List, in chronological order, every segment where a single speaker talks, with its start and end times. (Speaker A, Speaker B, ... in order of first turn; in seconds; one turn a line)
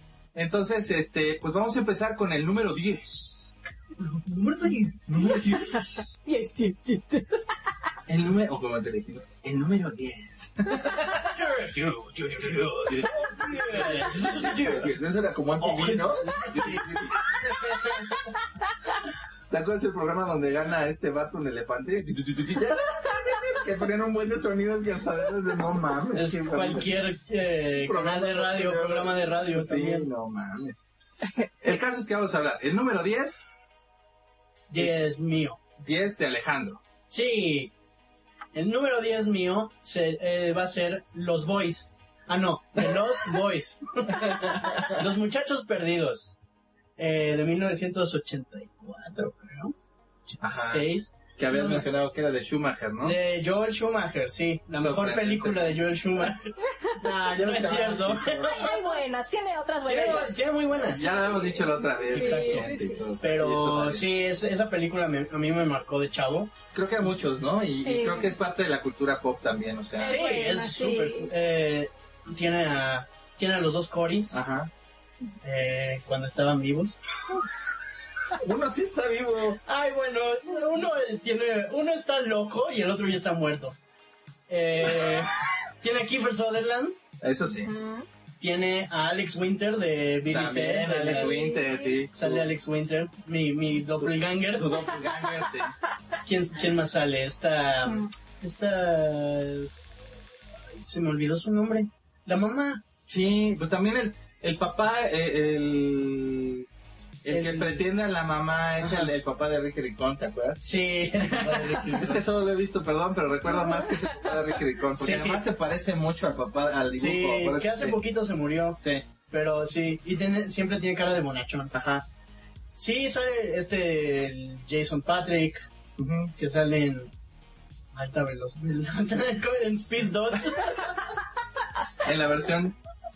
Speaker A: 0.3-3.5
Speaker B: 4.0-5.1
Speaker A: 5.1-6.1
Speaker C: 5.6-7.4
Speaker A: 8.1-18.0
Speaker B: 11.0-14.9
Speaker B: 15.6-18.1
Speaker A: 19.5-27.0
Speaker B: 26.1-30.1
Speaker A: 27.7-30.8
Speaker A: 31.6-33.5
Speaker B: 34.7-35.6
Speaker A: 35.8-36.8
Speaker B: 37.1-37.7
Speaker B: 38.5-46.4
Speaker A: 44.2-44.9
Speaker B: 47.0-49.7
Speaker B: 50.3-51.9
Speaker A: 50.4-53.2
Speaker B: 53.0-58.8
Speaker A: 54.8-55.8
Speaker A: 57.0-58.7
Speaker C: 58.4-63.0
Speaker B: 59.9-61.0
Speaker A: 60.9-64.1
Speaker B: 62.1-66.5
Speaker A: 66.7-70.3
Speaker C: 67.8-68.3
Speaker C: 70.0-71.3
Speaker B: 70.0-74.4
Speaker A: 74.3-74.7
Speaker B: 75.4-77.0
Speaker A: 78.3-79.6
Speaker B: 79.6-83.8
Speaker B: 84.5-87.0
Speaker A: 87.2-87.7
Speaker C: 87.6-88.0
Speaker B: 88.4-91.6
Speaker A: 90.3-92.5
Speaker C: 91.1-92.0
Speaker B: 92.1-94.9
Speaker A: 94.0-95.8
Speaker B: 96.1-99.7
Speaker B: 100.7-102.8
Speaker A: 103.1-106.7
Speaker A: 107.2-110.6
Speaker B: 107.3-107.8
Speaker B: 108.8-109.1
Speaker B: 110.6-112.2
Speaker A: 111.2-118.0
Speaker C: 113.7-114.0
Speaker B: 115.0-115.4
Speaker B: 116.9-121.7
Speaker A: 118.8-119.0
Speaker A: 121.7-122.0
Speaker B: 122.8-125.6
Speaker A: 126.0-126.3
Speaker B: 126.4-127.1
Speaker B: 127.9-131.0
Speaker A: 132.0-132.8